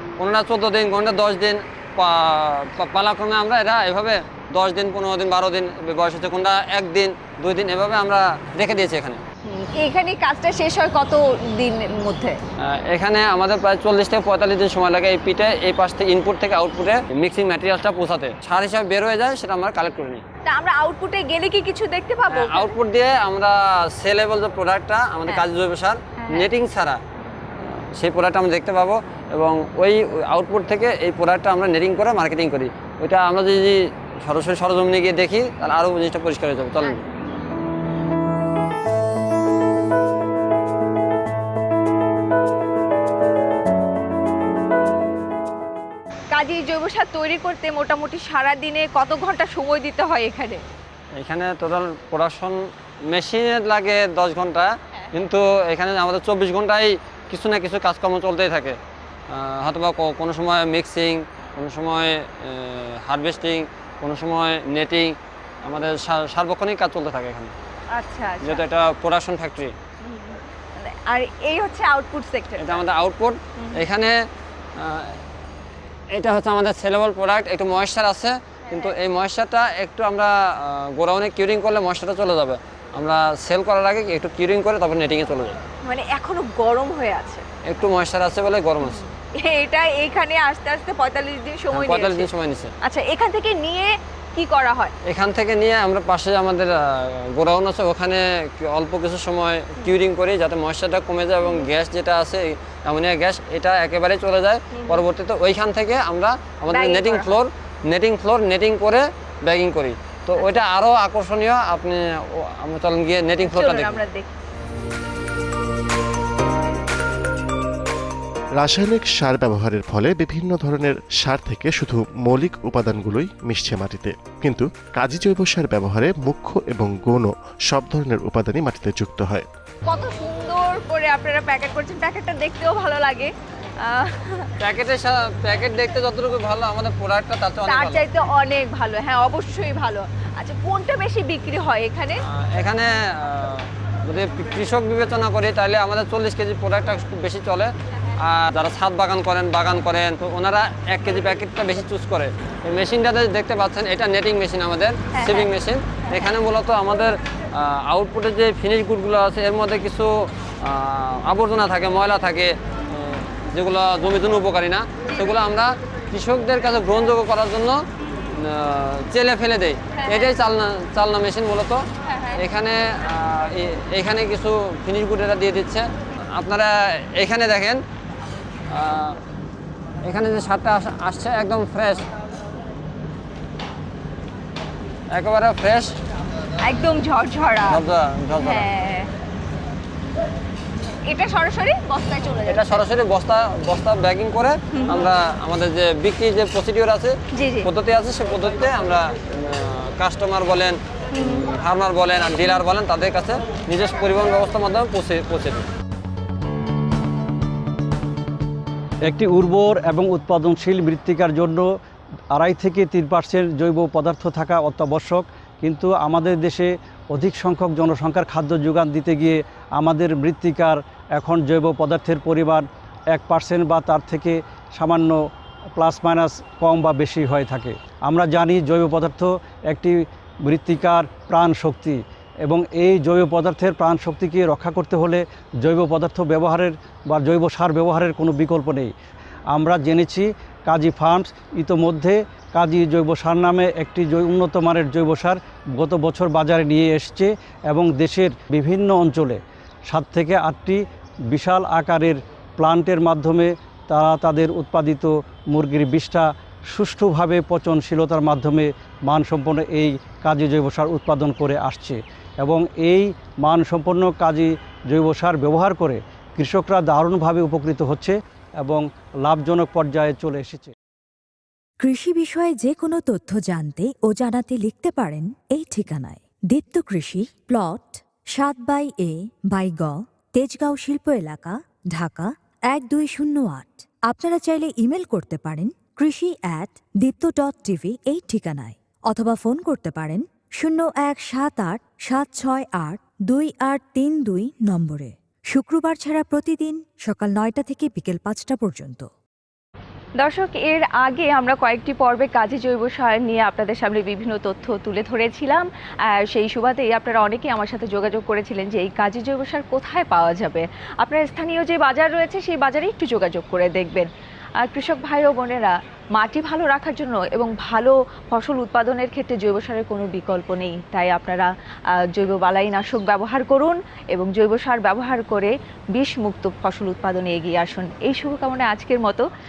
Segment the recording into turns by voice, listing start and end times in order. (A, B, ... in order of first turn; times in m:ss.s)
0:00.2-0:09.2 A
0:09.5-0:12.4 B
0:12.7-0:20.2 A
0:20.5-0:22.8 B
0:22.3-0:27.0 A
0:26.2-0:26.5 B
0:27.6-0:37.0 A
0:46.3-0:50.6 B
0:51.2-0:52.6 A
0:53.1-0:58.8 A
0:59.3-1:07.5 A
1:07.9-1:08.6 B
1:08.4-1:09.7 A
1:10.0-1:12.8 B
1:12.6-1:14.2 A
1:13.6-1:13.8 B
1:14.8-1:15.2 A
1:16.1-1:25.6 A
1:25.8-1:27.4 B
1:27.7-1:29.0 A
1:28.8-1:32.3 B
1:31.7-1:32.7 A
1:32.8-1:34.9 B
1:35.1-1:54.0 A
1:41.4-1:41.7 B
1:44.8-1:45.0 B
1:46.7-1:47.4 B
1:53.4-1:54.3 B
1:58.6-2:09.5 C
2:09.9-2:14.5 B
2:14.6-2:18.0 A
2:17.7-2:22.2 B
2:22.3-2:27.7 A
2:28.2-2:40.1 A
2:35.2-2:35.5 B
2:40.6-2:47.8 A
2:45.1-2:45.4 B
2:48.3-2:51.8 A
2:50.0-2:50.3 B
2:52.1-2:52.4 B
2:52.3-2:57.8 A
2:58.7-2:59.2 A
3:00.1-3:02.0 A
3:05.2-3:05.9 A
3:06.6-3:07.8 B
3:07.6-3:08.7 A
3:08.4-3:09.1 B
3:11.1-3:12.8 B
3:12.5-3:25.7 A
3:14.8-3:15.1 B
3:17.4-3:17.7 B
3:21.1-3:21.5 B
3:29.0-3:31.7 D
3:32.3-3:45.2 D
3:45.8-3:58.9 D
3:59.5-4:30.7 D
4:31.8-4:59.1 E
5:00.2-5:14.1 B
5:14.6-5:21.5 B
5:22.1-5:29.2 B